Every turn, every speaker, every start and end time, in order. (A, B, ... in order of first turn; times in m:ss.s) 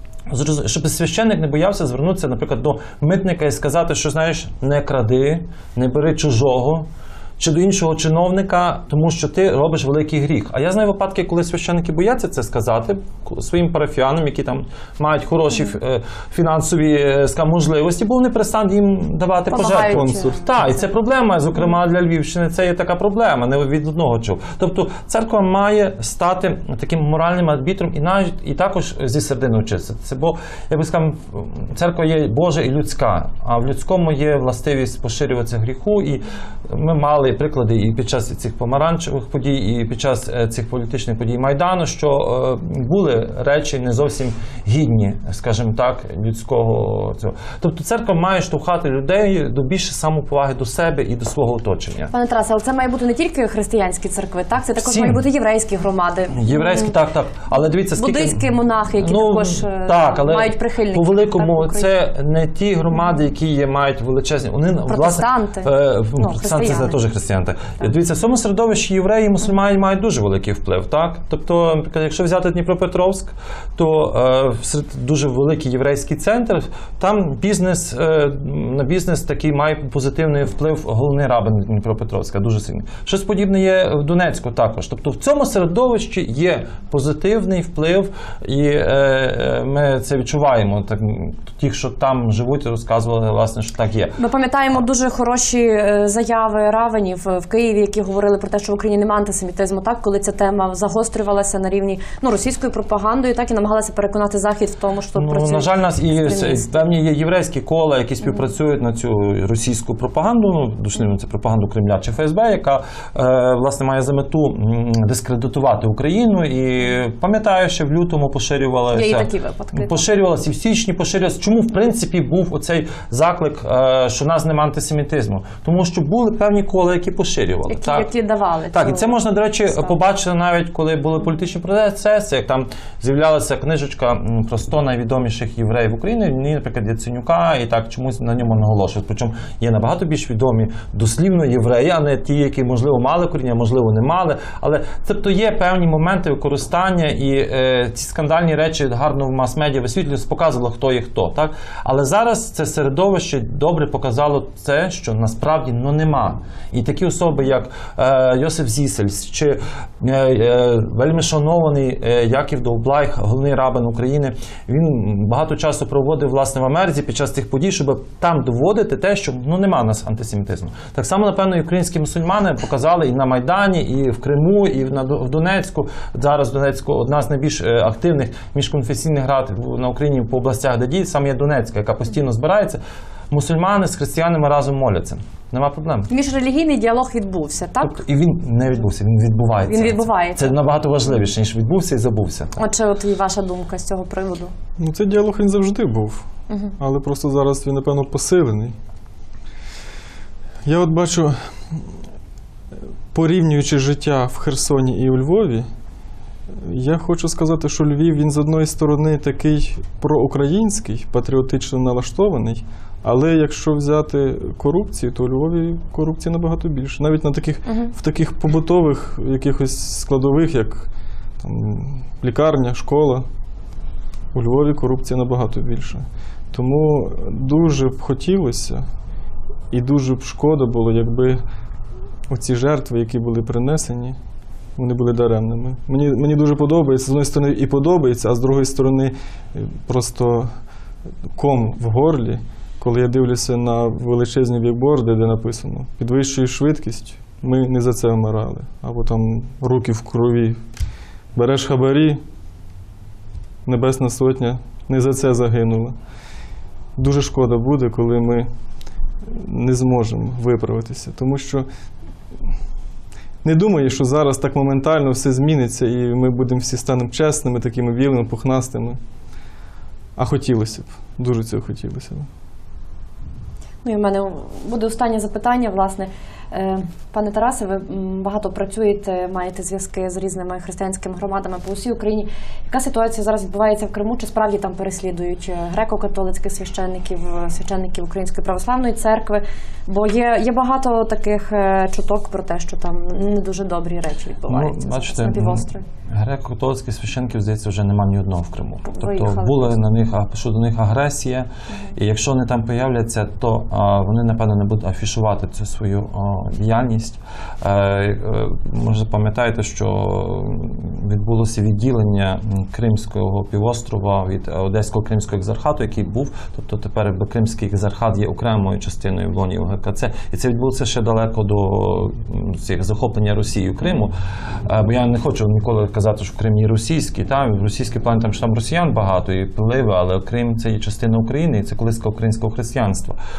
0:00.3-0:52.1 A
0:19.5-0:20.6 B
0:19.9-0:20.4 C
0:52.1-0:56.9 B
0:54.8-0:55.2 A
0:56.4-0:58.4 A
0:58.0-1:01.9 B
0:59.0-1:34.2 A
1:04.9-1:07.0 B
1:34.2-1:46.7 B
1:45.2-2:08.1 A
1:58.9-2:00.0 B
2:07.7-2:09.2 B
2:08.7-3:06.1 A
3:06.1-3:08.0 B
3:07.8-3:12.6 A
3:09.7-3:10.6 B
3:12.6-3:14.5 B
3:14.8-3:16.3 C
3:16.8-3:18.8 C
3:20.6-3:21.8 C
3:23.1-3:25.7 C
3:26.5-3:40.9 C
3:41.4-3:43.3 C
3:44.3-3:48.9 C
3:49.7-3:51.4 C
3:52.3-3:54.2 C
3:54.8-4:00.5 C
4:01.3-4:10.6 C
4:11.4-4:12.2 C
4:13.6-4:16.0 C
4:17.0-4:18.5 C
4:19.2-4:21.7 C
4:23.4-4:29.0 C
4:30.2-4:32.3 C
4:33.8-4:55.8 B
4:54.5-5:24.1 A
4:58.9-4:59.8 B
5:24.6-5:33.2 A